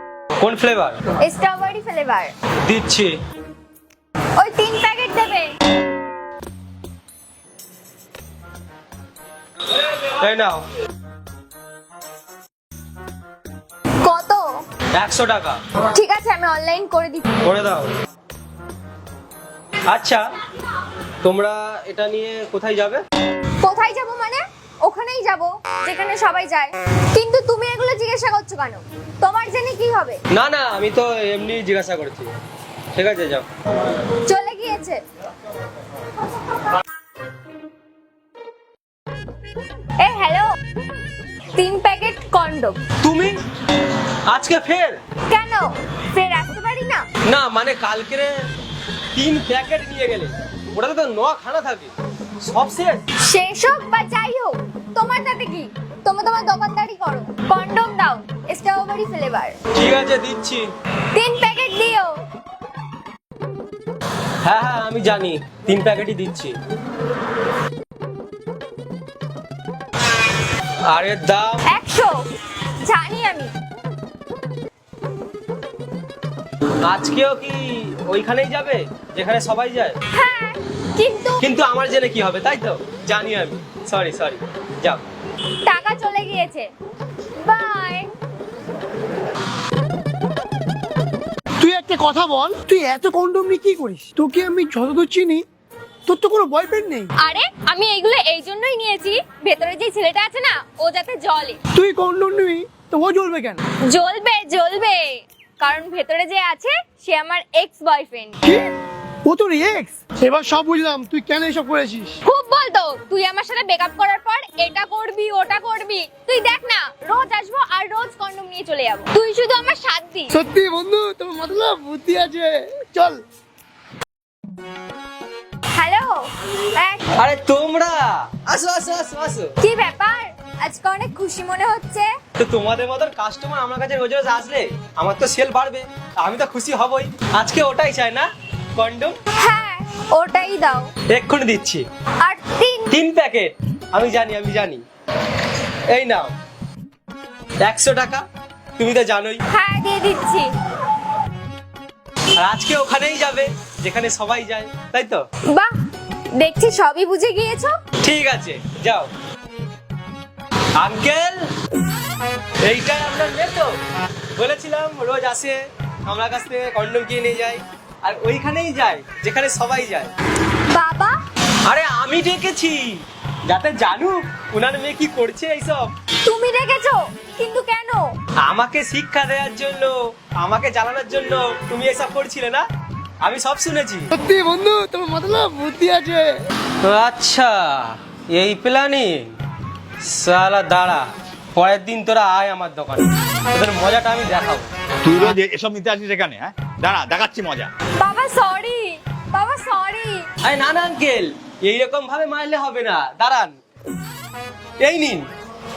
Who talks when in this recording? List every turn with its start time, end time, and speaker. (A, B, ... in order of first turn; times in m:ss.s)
0:00.4-0:01.0 A
0:01.2-0:02.3 B
0:02.6-0:03.1 A
0:04.4-0:05.5 B
0:09.9-0:10.6 A
0:14.0-0:14.6 B
0:14.9-0:15.6 A
0:15.9-0:17.3 B
0:17.4-0:17.9 A
0:19.9-0:20.2 A
0:21.2-0:23.0 A
0:23.6-0:30.2 B
0:30.3-0:32.3 A
0:32.9-0:33.4 A
0:34.2-0:35.0 B
0:40.0-0:40.5 B
0:41.6-0:42.8 B
0:43.0-0:43.4 A
0:44.3-0:45.0 A
0:45.3-0:47.0 B
0:47.2-0:48.3 A
0:49.1-0:53.0 A
0:53.2-0:59.6 B
0:59.7-1:00.7 A
1:01.1-1:02.2 B
1:04.4-1:06.6 A
1:10.9-1:11.6 A
1:11.7-1:12.2 B
1:12.8-1:13.5 B
1:16.8-1:20.0 A
1:20.1-1:21.4 B
1:21.4-1:25.0 A
1:25.6-1:26.7 B
1:27.4-1:28.1 B
1:31.6-1:35.4 C
1:36.1-1:37.1 C
1:37.2-1:41.6 B
1:41.7-1:43.6 C
1:43.8-1:48.4 B
1:48.4-1:48.7 C
1:49.2-1:52.2 C
1:52.2-2:00.3 B
2:00.3-2:03.2 C
2:05.8-2:07.0 B
2:07.2-2:09.5 A
2:09.6-2:12.1 B
2:12.4-2:19.2 A
2:19.4-2:20.9 B
2:21.1-2:21.8 A
2:22.2-2:22.9 B
2:22.9-2:24.8 A
2:25.9-2:26.3 A
2:27.6-2:28.2 A
2:28.8-2:29.4 A
2:29.5-2:30.5 B
2:32.4-2:35.2 A
2:35.4-2:35.7 B
2:36.3-2:37.7 B
2:38.0-2:39.1 A
2:40.8-2:41.5 A
2:42.6-2:43.7 A
2:44.4-2:50.1 A
2:50.7-2:51.2 B
2:51.6-2:55.9 A
2:56.2-2:58.1 B
2:58.4-3:02.6 A
3:03.2-3:04.1 A
3:04.1-3:06.3 C
3:06.8-3:09.3 A
3:10.0-3:14.7 A
3:15.0-3:17.7 D
3:18.0-3:20.3 B
3:20.4-3:23.6 A
3:24.8-3:25.3 A